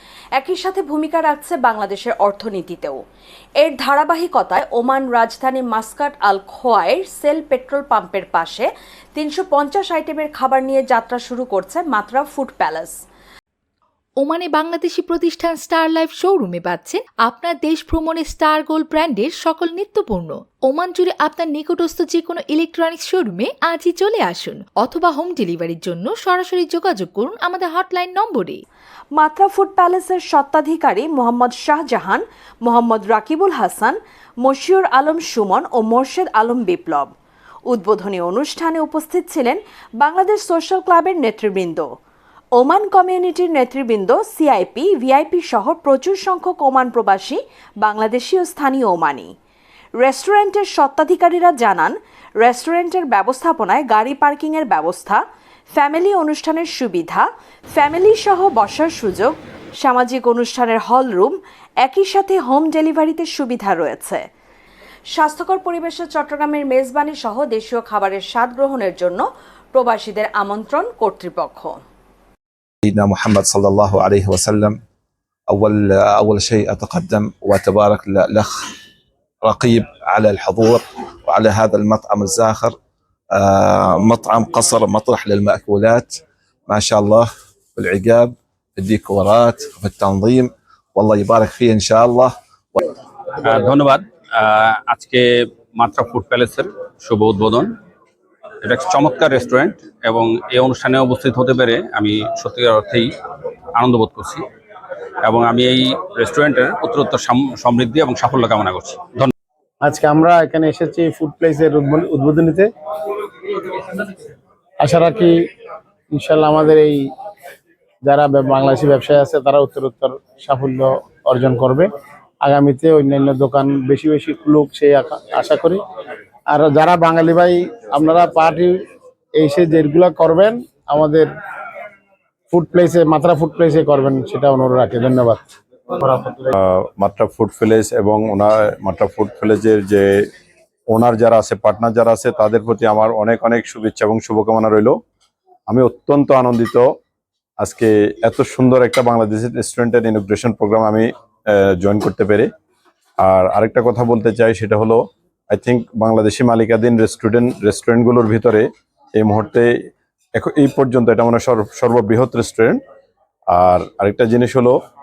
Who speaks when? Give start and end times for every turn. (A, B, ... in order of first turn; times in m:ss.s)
0:00.4-0:03.0 A
0:03.6-0:13.0 A
0:14.2-0:28.6 B
0:29.2-0:37.1 A
0:37.7-0:41.9 A
0:42.6-0:49.3 A
0:50.0-0:55.2 A
0:55.7-1:04.2 A
1:05.2-1:11.8 A
1:12.8-1:14.8 C
1:15.5-1:18.6 C
1:19.4-1:22.8 C
1:23.3-1:32.8 C
1:33.4-1:37.7 D
1:38.6-1:43.1 D
1:43.8-1:44.4 D
1:45.2-1:49.3 D
1:49.8-1:52.7 E
1:54.8-1:55.4 E
1:56.1-1:57.1 E
1:58.0-2:05.8 E
2:06.5-2:08.8 E
2:09.4-2:11.3 E
2:12.5-2:15.5 E
2:16.0-2:16.5 E
2:16.5-2:20.1 F
2:20.9-2:25.0 F
2:25.7-2:26.9 F
2:27.6-2:32.5 F
2:33.2-2:39.7 F
2:40.4-2:42.8 F
2:43.6-2:44.8 F